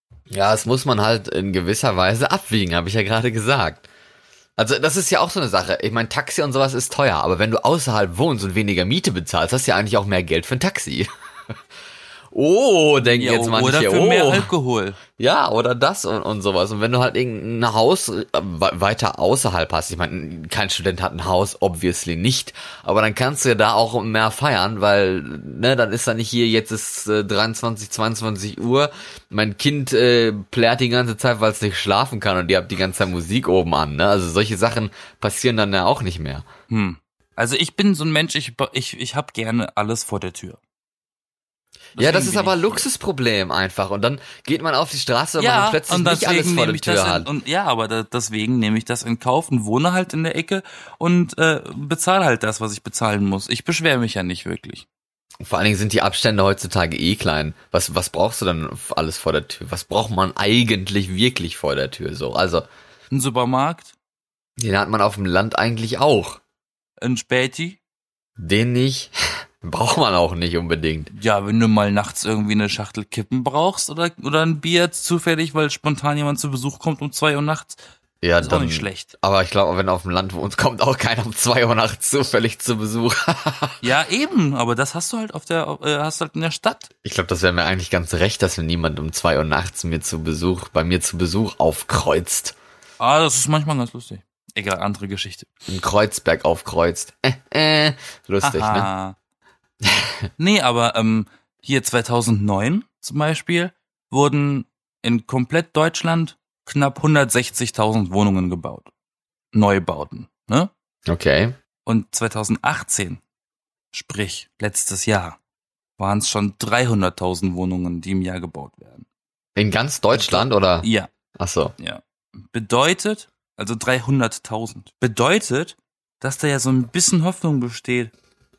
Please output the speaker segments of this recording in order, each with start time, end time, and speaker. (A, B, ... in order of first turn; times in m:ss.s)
0:00.3-0:03.8 A
0:04.6-0:11.1 A
0:12.3-0:14.5 A
0:13.0-0:15.0 B
0:15.2-0:36.4 A
0:36.7-0:40.6 B
0:42.0-0:42.8 B
0:42.0-0:47.3 A
0:45.4-0:54.9 B
0:55.4-1:02.7 A
1:03.1-1:04.0 B
1:04.6-1:06.4 A
1:07.0-1:07.8 B
1:08.4-1:11.1 A
1:11.1-1:17.8 B
1:18.2-1:23.8 A
1:18.4-1:19.1 B
1:23.8-1:26.9 B
1:27.0-1:32.6 A
1:33.0-1:35.5 B
1:35.7-1:38.9 A
1:38.4-1:39.2 B
1:39.8-1:40.1 A
1:40.4-1:48.9 B
1:49.5-1:50.7 B
1:51.1-1:51.5 A
1:51.9-1:53.2 B
1:53.9-1:55.4 B
1:56.0-1:59.1 B
1:59.6-2:01.7 A
2:00.1-2:01.1 B
2:01.8-2:08.1 B